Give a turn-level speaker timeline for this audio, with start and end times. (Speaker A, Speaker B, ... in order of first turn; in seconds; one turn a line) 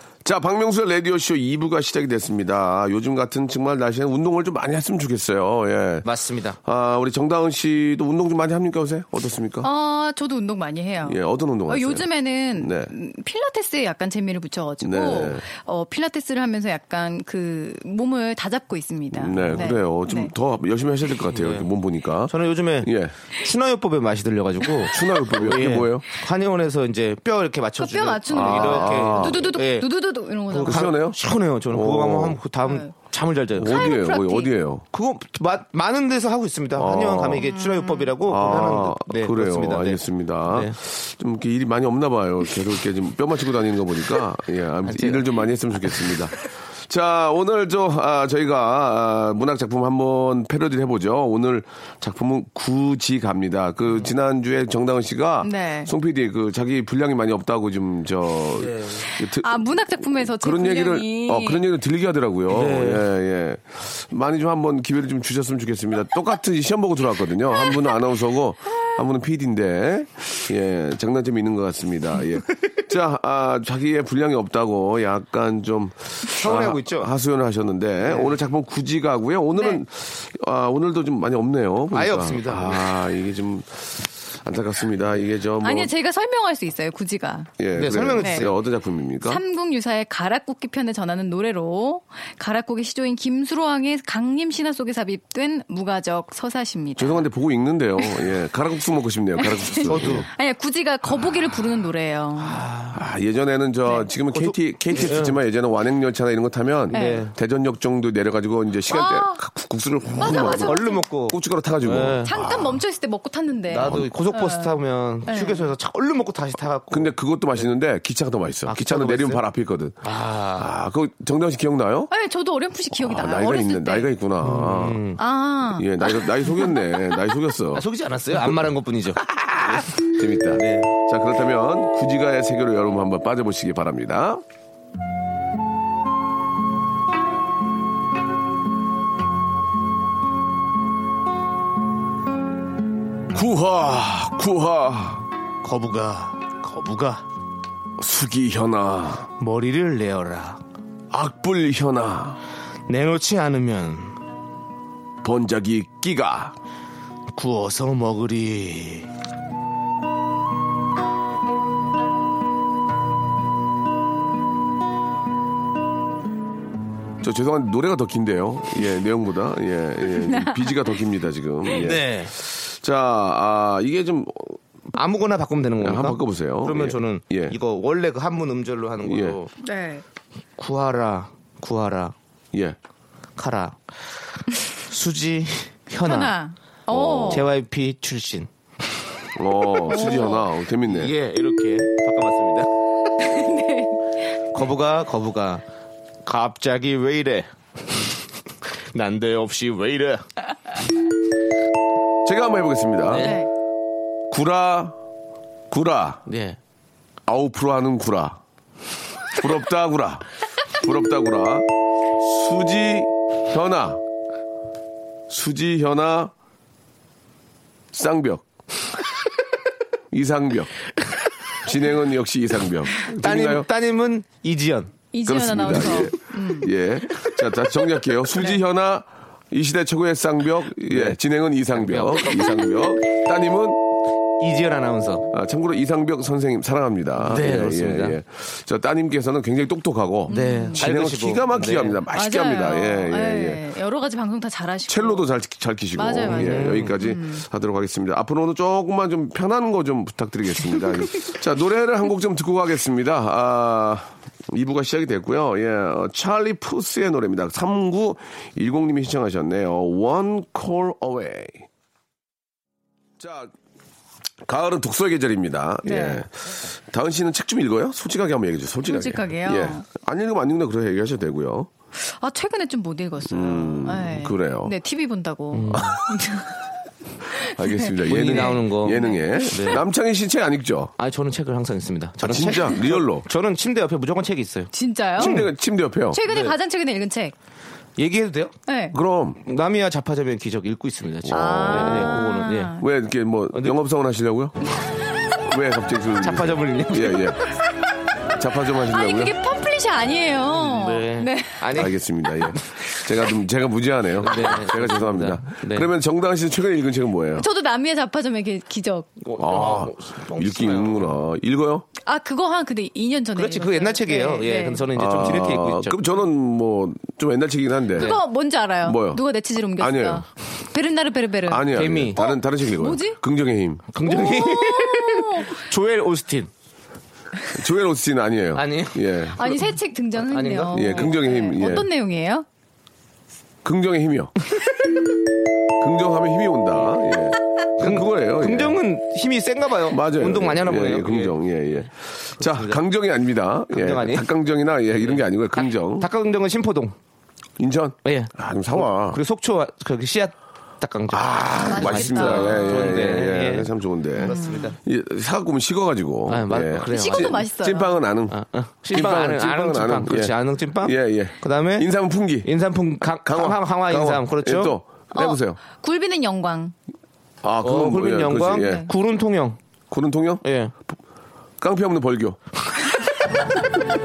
Speaker A: 0.2-6.1
Speaker B: 6.0-6.6
Speaker A: 6.6-9.7
Speaker C: 9.6-20.3
Speaker A: 11.1-12.9
Speaker A: 14.8-15.4
Speaker A: 19.1-23.1
Speaker B: 19.4-19.7
Speaker B: 21.3-21.7
Speaker B: 22.3-29.9
Speaker A: 24.9-26.1
Speaker C: 27.8-30.9
Speaker A: 28.3-29.5
Speaker A: 30.5-31.2
Speaker B: 30.6-33.8
Speaker A: 31.7-32.4
Speaker C: 32.6-32.9
Speaker A: 33.6-34.9
Speaker C: 33.7-34.5
Speaker B: 34.9-40.8
Speaker A: 36.8-37.5
Speaker C: 37.4-38.1
Speaker A: 38.3-85.9
Speaker B: 44.9-46.1
Speaker C: 55.4-55.9
Speaker B: 58.6-59.1
Speaker C: 59.2-61.6
Speaker B: 62.5-63.1
Speaker B: 76.3-77.1
Speaker B: 78.1-78.3
Speaker B: 81.9-82.8
Speaker C: 85.6-87.5
Speaker A: 87.6-89.4
Speaker B: 87.8-88.5
Speaker C: 88.2-88.5
Speaker C: 89.2-97.2
Speaker A: 97.0-100.3
Speaker C: 98.0-98.3
Speaker C: 99.4-102.6
Speaker B: 99.9-100.3
Speaker B: 102.4-103.0
Speaker A: 102.9-112.7
Speaker B: 104.3-105.4
Speaker B: 106.9-107.3
Speaker C: 106.9-107.2
Speaker C: 108.9-109.4
Speaker C: 110.2-111.1
Speaker B: 110.2-112.4
Speaker C: 112.2-115.7
Speaker B: 113.7-117.1
Speaker A: 116.9-120.0
Speaker B: 118.7-119.4
Speaker B: 120.0-120.7
Speaker A: 120.6-122.1
Speaker C: 122.1-124.1
Speaker A: 122.9-125.0
Speaker B: 124.4-125.2
Speaker C: 125.2-127.0
Speaker A: 125.8-127.8
Speaker B: 127.8-130.9
Speaker A: 129.6-134.4
Speaker A: 143.3-145.3
Speaker B: 145.6-147.2
Speaker A: 148.0-149.3
Speaker B: 149.4-150.6
Speaker A: 151.1-152.4
Speaker B: 152.9-154.2
Speaker A: 155.2-156.5
Speaker B: 157.3-159.1
Speaker A: 167.2-174.6
Speaker C: 170.2-170.8
Speaker B: 171.7-172.3
Speaker B: 174.9-179.5
Speaker A: 175.8-177.6
Speaker A: 179.0-179.4
Speaker C: 179.6-180.0
Speaker B: 180.6-182.2
Speaker B: 183.4-183.8
Speaker B: 184.7-186.3
Speaker C: 186.0-187.5
Speaker A: 186.9-187.5
Speaker B: 187.3-188.5
Speaker A: 189.4-191.1
Speaker C: 189.9-190.5
Speaker B: 189.9-190.2
Speaker B: 190.9-192.7
Speaker C: 193.2-194.0
Speaker B: 194.5-195.6
Speaker B: 196.2-197.5
Speaker B: 198.9-200.3
Speaker A: 202.2-203.4
Speaker B: 203.1-203.4
Speaker C: 203.2-203.5
Speaker A: 204.3-204.9
Speaker A: 205.7-206.2
Speaker B: 206.3-206.6
Speaker A: 207.3-208.4
Speaker A: 209.3-211.7
Speaker A: 212.2-214.0
Speaker A: 215.3-216.3
Speaker A: 217.9-218.4
Speaker A: 220.1-220.7
Speaker A: 221.6-223.7
Speaker B: 223.1-224.9
Speaker C: 225.1-226.7
Speaker A: 225.2-233.8
Speaker B: 230.9-231.2
Speaker B: 231.7-232.7
Speaker B: 234.4-235.3
Speaker A: 235.3-243.6
Speaker B: 237.2-238.2
Speaker B: 240.3-242.0
Speaker C: 240.3-240.8
Speaker C: 242.1-245.3
Speaker A: 244.9-261.7
Speaker C: 246.0-247.4
Speaker B: 246.3-246.9
Speaker A: 263.2-263.5
Speaker A: 264.5-271.7
Speaker C: 265.9-266.2
Speaker C: 268.9-269.8
Speaker C: 272.2-276.6
Speaker A: 273.3-274.7
Speaker B: 275.5-275.9
Speaker A: 275.7-276.0
Speaker C: 277.3-279.8
Speaker A: 277.4-280.9
Speaker B: 278.1-279.8
Speaker B: 281.0-285.5
Speaker A: 282.2-283.3
Speaker C: 284.7-285.4
Speaker A: 285.2-286.2
Speaker C: 286.1-287.3
Speaker B: 286.2-286.6
Speaker B: 288.0-288.6
Speaker C: 288.7-289.0
Speaker A: 288.9-289.4
Speaker B: 289.4-292.7
Speaker A: 291.3-292.2
Speaker C: 291.3-292.9
Speaker A: 292.8-294.6
Speaker A: 295.4-297.4
Speaker B: 296.2-297.3
Speaker A: 298.3-299.4
Speaker C: 298.9-301.7
Speaker B: 300.5-301.9
Speaker A: 301.7-307.5
Speaker B: 304.2-305.9
Speaker C: 307.4-309.1
Speaker B: 309.2-311.2
Speaker A: 309.4-311.9
Speaker C: 312.1-314.9
Speaker B: 313.4-316.0
Speaker A: 314.9-318.2
Speaker C: 317.9-323.2
Speaker B: 318.0-318.2
Speaker A: 318.8-319.2
Speaker A: 319.8-320.2
Speaker A: 321.5-323.8
Speaker B: 321.7-322.2
Speaker B: 323.9-326.5
Speaker C: 324.1-325.6
Speaker A: 327.5-329.7
Speaker B: 328.6-329.0
Speaker C: 329.4-332.5
Speaker B: 330.2-331.1
Speaker A: 330.7-331.9
Speaker A: 333.6-334.3
Speaker A: 335.8-338.8
Speaker B: 337.8-341.9
Speaker A: 339.9-346.1
Speaker B: 342.4-342.8
Speaker B: 343.7-344.3
Speaker B: 345.0-346.9
Speaker A: 347.6-349.2
Speaker B: 348.0-354.8
Speaker A: 351.1-358.4
Speaker C: 351.6-353.0
Speaker C: 354.3-354.7
Speaker B: 356.3-357.4
Speaker C: 356.9-358.0
Speaker B: 358.3-361.9
Speaker A: 358.9-362.5
Speaker B: 362.4-364.8
Speaker A: 363.2-365.6
Speaker C: 365.1-366.8
Speaker A: 367.4-368.9
Speaker B: 367.6-369.6
Speaker C: 368.6-368.9
Speaker A: 369.9-370.4
Speaker B: 370.4-370.7
Speaker A: 371.6-372.4